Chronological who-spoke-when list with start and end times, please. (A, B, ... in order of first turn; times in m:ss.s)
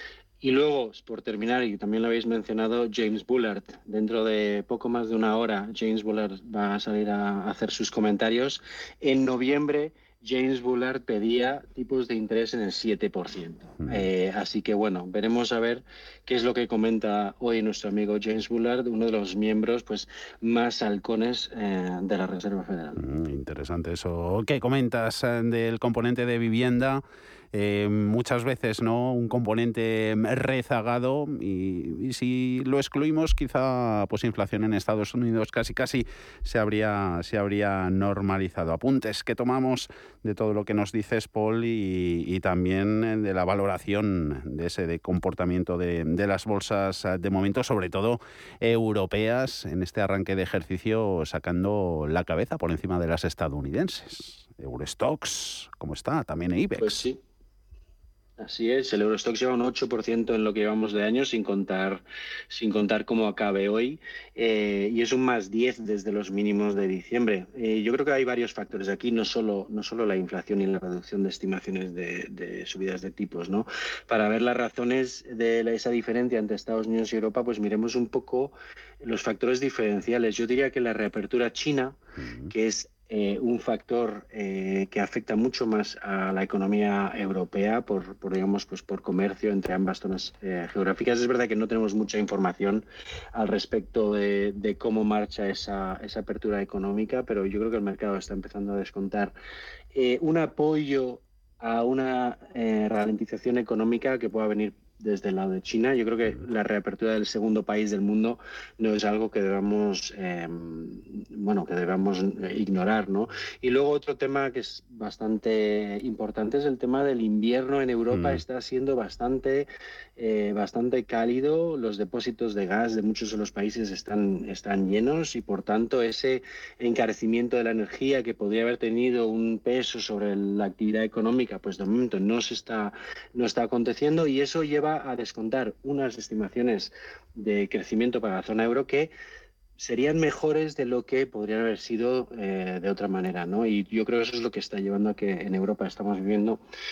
0:00.4-0:23.0 A
0:13.8-0:14.1 B
0:23.0-0:57.0 B
0:56.8-0:57.2 A
0:58.4-1:39.3 A
1:22.2-1:22.5 B
1:39.9-2:19.1 A
1:58.1-1:58.4 B
2:19.8-2:26.6 A